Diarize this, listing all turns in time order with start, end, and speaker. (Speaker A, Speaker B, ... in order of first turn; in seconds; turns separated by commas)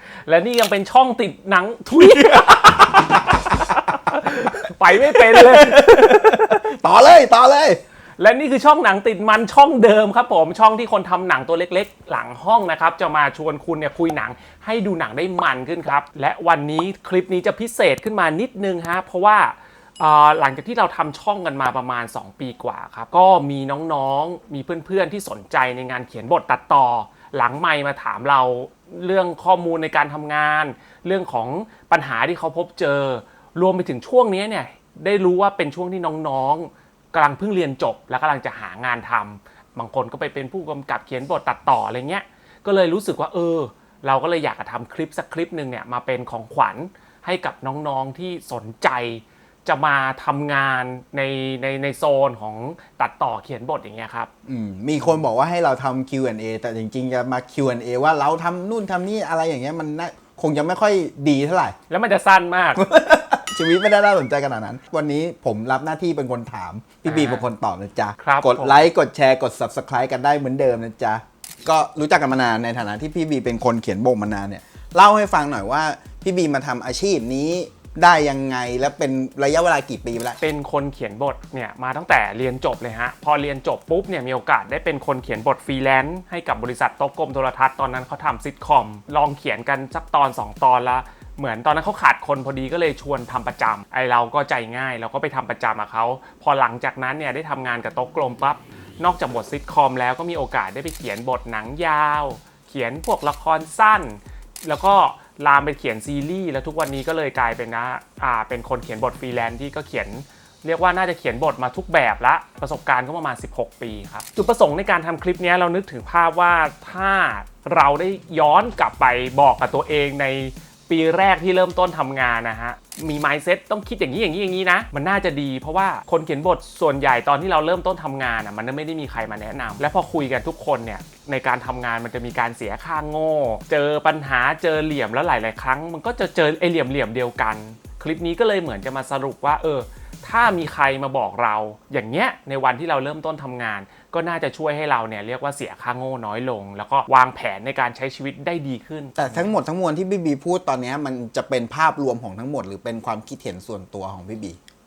Speaker A: 0.2-6.6, Speaker B: 4.9-7.8, Speaker A: 8.2-54.3, Speaker B: 54.5-61.8, Speaker A: 61.9-62.8, Speaker B: 62.8-80.4, Speaker A: 67.0-67.5, Speaker A: 68.2-68.9, Speaker A: 80.4-149.5, Speaker B: 149.2-154.6